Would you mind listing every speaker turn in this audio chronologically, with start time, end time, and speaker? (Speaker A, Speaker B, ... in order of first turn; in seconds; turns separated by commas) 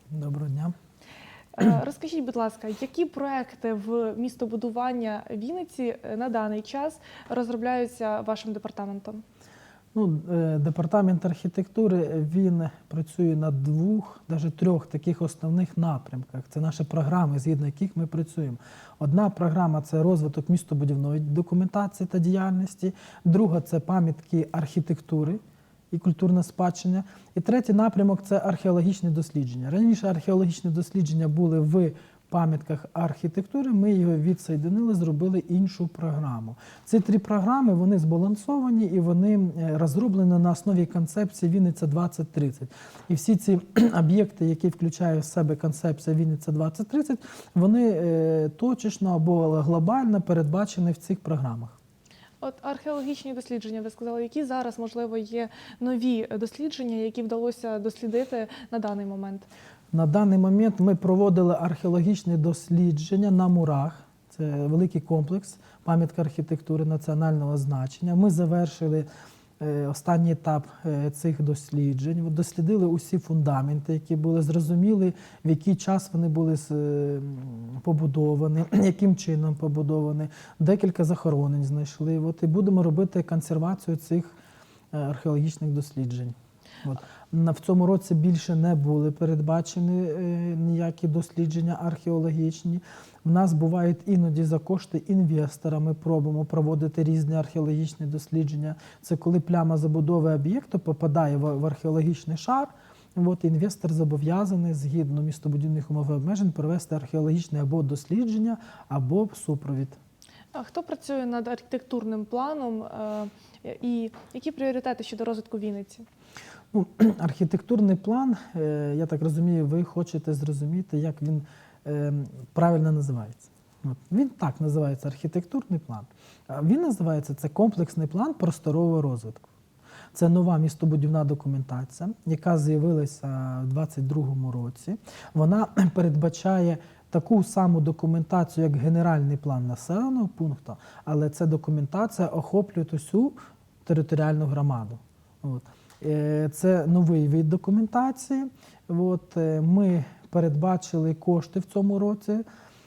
Speaker A: 0.1-0.7, Speaker B: 1.5-9.2, Speaker A: 9.9-51.8, Speaker B: 52.4-59.5, Speaker A: 59.9-69.1, Speaker A: 69.6-84.3, Speaker A: 84.9-110.0, Speaker B: 110.5-116.0, Speaker A: 116.7-129.5, Speaker A: 130.1-152.4